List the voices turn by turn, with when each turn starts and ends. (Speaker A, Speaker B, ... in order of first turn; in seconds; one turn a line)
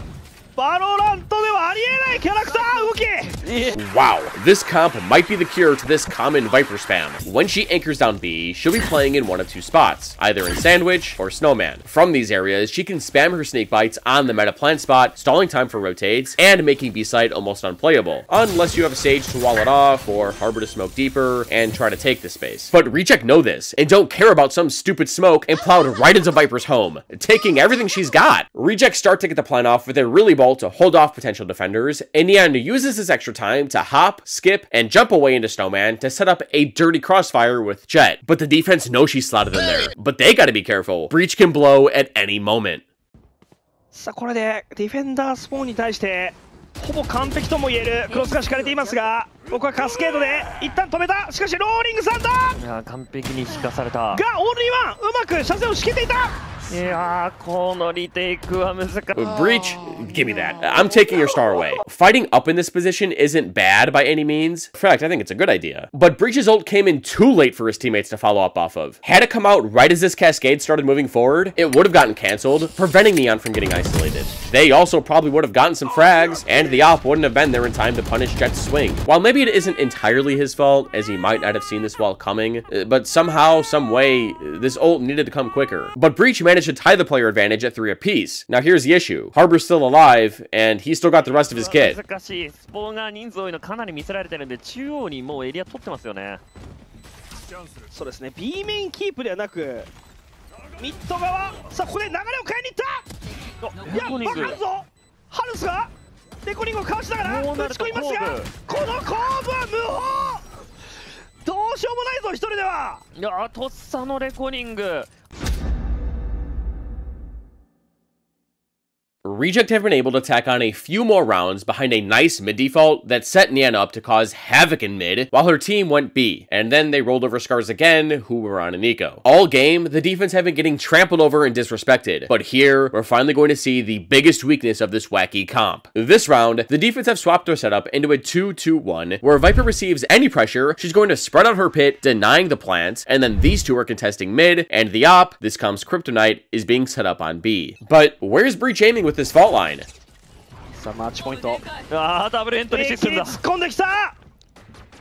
Speaker A: 0.6-3.4
Speaker B: 3.4-3.8
Speaker C: 3.7-42.8
Speaker A: 43.9-52.6
Speaker B: 52.6-54.2
Speaker A: 54.1-56.4
Speaker B: 56.7-59.6
Speaker C: 59.1-92.0
Speaker B: 91.4-96.4
Speaker A: 97.9-99.9
Speaker A: 100.8-103.1
Speaker A: 103.6-105.9
Speaker B: 103.8-104.6
Speaker A: 106.4-110.6
Speaker B: 107.2-108.5
Speaker A: 111.4-113.0
Speaker B: 113.1-115.1
Speaker C: 119.2-149.9
Speaker A: 150.7-151.6
Speaker B: 151.9-153.4
Speaker A: 152.7-154.2